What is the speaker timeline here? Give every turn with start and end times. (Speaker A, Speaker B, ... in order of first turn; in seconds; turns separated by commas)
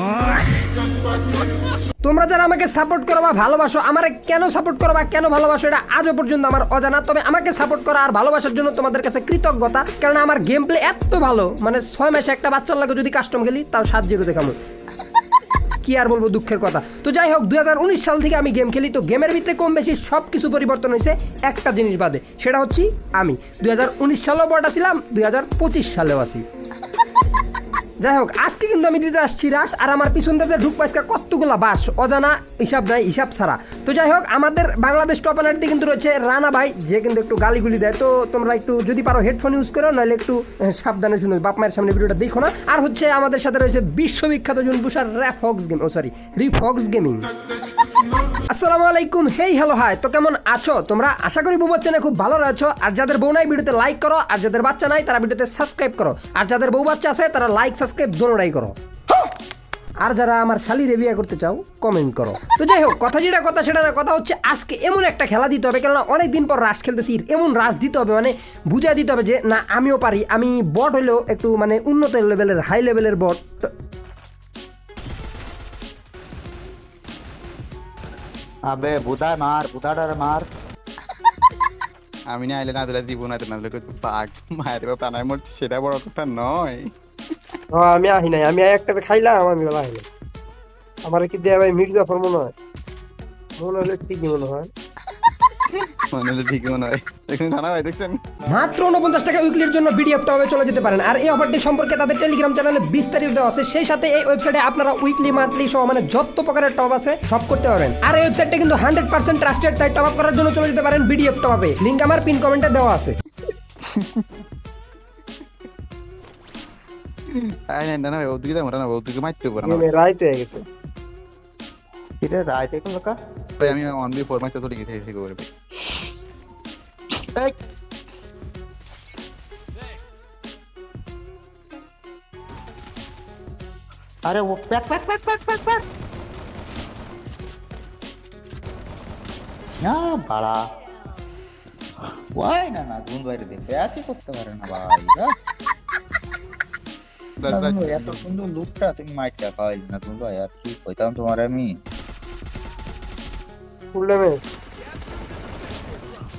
Speaker A: 2.0-14.6, Speaker A: 15.8-26.4, Speaker A: 28.0-47.2, Speaker A: 48.4-58.7, Speaker A: 60.0-73.7, Speaker B: 78.7-80.4, Speaker C: 82.3-86.9, Speaker D: 87.7-90.0, Speaker D: 91.0-92.5, Speaker D: 93.6-94.7, Speaker C: 96.1-98.2, Speaker A: 98.5-113.1, Speaker B: 113.8-114.2, Speaker C: 117.3-119.9, Speaker D: 119.6-120.6, Speaker B: 122.2-123.1, Speaker C: 123.6-125.5, Speaker B: 127.2-127.5, Speaker B: 134.2-135.8, Speaker B: 139.8-140.6, Speaker B: 142.3-145.3, Speaker C: 147.4-148.3, Speaker B: 147.4-151.7, Speaker D: 153.9-154.5